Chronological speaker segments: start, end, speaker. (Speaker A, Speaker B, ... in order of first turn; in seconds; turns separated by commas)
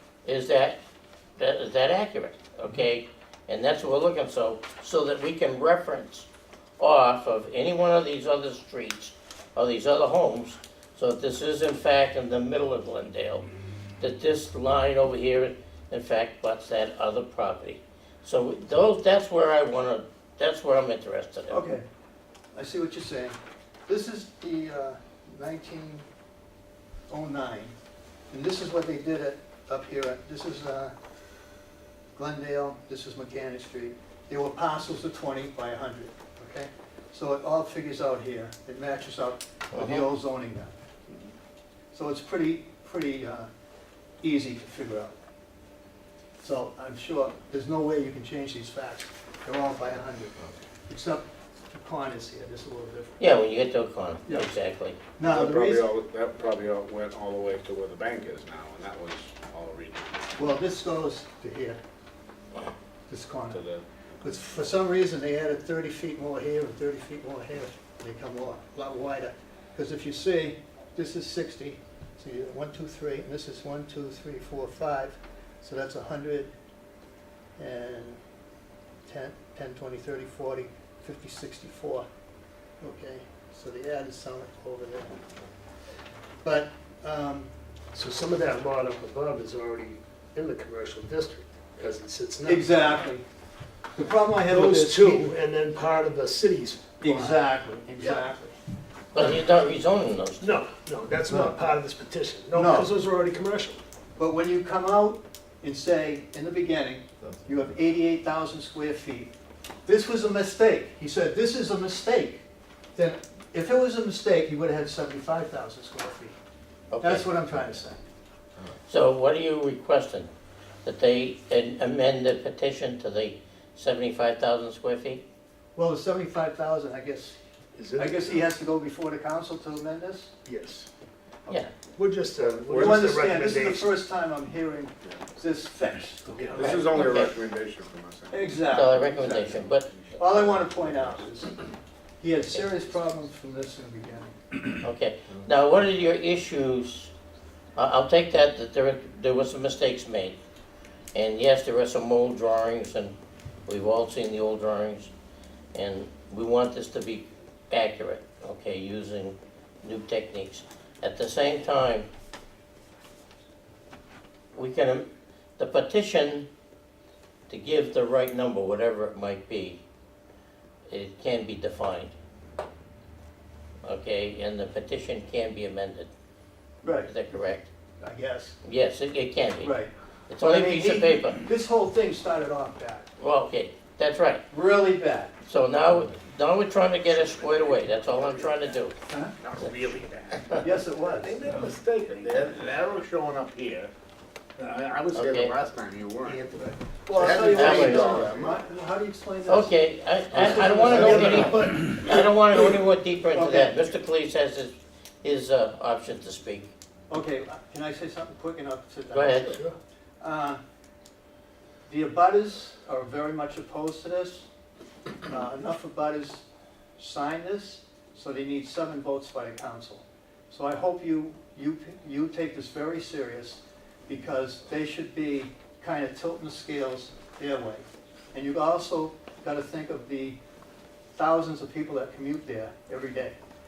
Speaker A: 0.2-0.8, Speaker A: 1.4-6.3, Speaker A: 6.8-13.5, Speaker A: 14.0-21.7, Speaker B: 21.5-21.8, Speaker B: 22.5-26.1, Speaker B: 27.1-27.7, Speaker B: 28.3-30.9, Speaker B: 32.2-40.7, Speaker A: 39.7-40.1, Speaker B: 41.9-43.5, Speaker B: 44.2-45.1, Speaker B: 46.4-50.4, Speaker B: 50.9-53.2, Speaker A: 53.2-55.0, Speaker B: 54.3-54.5, Speaker B: 55.2-55.9, Speaker C: 55.3-60.4, Speaker B: 60.4-61.8, Speaker B: 63.1-63.6, Speaker C: 63.5-63.8, Speaker B: 64.2-76.5, Speaker B: 77.6-78.2, Speaker B: 79.0-82.0, Speaker B: 82.8-85.2, Speaker B: 86.4-87.5, Speaker D: 87.9-93.1, Speaker B: 92.4-93.2, Speaker B: 94.0-95.3, Speaker D: 94.4-97.4, Speaker B: 97.0-98.5, Speaker D: 98.0-98.2, Speaker A: 99.1-100.6, Speaker D: 100.4-103.8, Speaker B: 101.3-101.7, Speaker B: 102.5-102.9, Speaker B: 104.2-109.3, Speaker B: 109.8-112.4, Speaker B: 112.9-116.4, Speaker A: 116.9-117.3, Speaker B: 117.0-118.0, Speaker A: 118.9-120.3, Speaker A: 120.8-125.2, Speaker B: 125.8-127.4, Speaker D: 127.8-128.5, Speaker B: 127.9-130.3, Speaker D: 130.4-130.9, Speaker D: 131.9-134.0, Speaker B: 132.6-137.3, Speaker D: 136.3-137.1, Speaker C: 136.5-141.5, Speaker A: 136.9-137.3, Speaker B: 138.3-139.5, Speaker A: 138.7-139.9, Speaker B: 140.2-141.5, Speaker B: 142.2-144.4, Speaker A: 144.8-147.1, Speaker A: 147.8-150.4, Speaker A: 151.1-155.1, Speaker A: 155.7-162.1, Speaker A: 164.5-166.5, Speaker A: 167.5-169.8, Speaker A: 170.9-172.1, Speaker A: 173.8-176.1, Speaker B: 176.8-177.3, Speaker A: 177.0-177.7, Speaker B: 178.0-178.6, Speaker A: 178.6-179.8, Speaker B: 179.6-183.1, Speaker A: 180.3-181.4, Speaker A: 183.2-184.4, Speaker B: 184.5-185.4, Speaker A: 185.4-188.9, Speaker C: 187.1-188.8, Speaker B: 189.1-189.3, Speaker C: 189.4-190.8, Speaker B: 190.6-191.4, Speaker D: 190.8-192.7, Speaker C: 191.4-193.9, Speaker C: 194.6-198.6, Speaker A: 195.1-195.5, Speaker B: 196.5-202.3, Speaker A: 197.5-198.3, Speaker A: 199.4-206.7, Speaker B: 203.3-203.9, Speaker B: 207.1-209.7, Speaker A: 209.1-209.6, Speaker D: 209.4-209.7, Speaker B: 210.2-210.6, Speaker B: 211.9-214.5, Speaker B: 215.2-216.4, Speaker B: 217.0-230.4, Speaker B: 231.1-233.4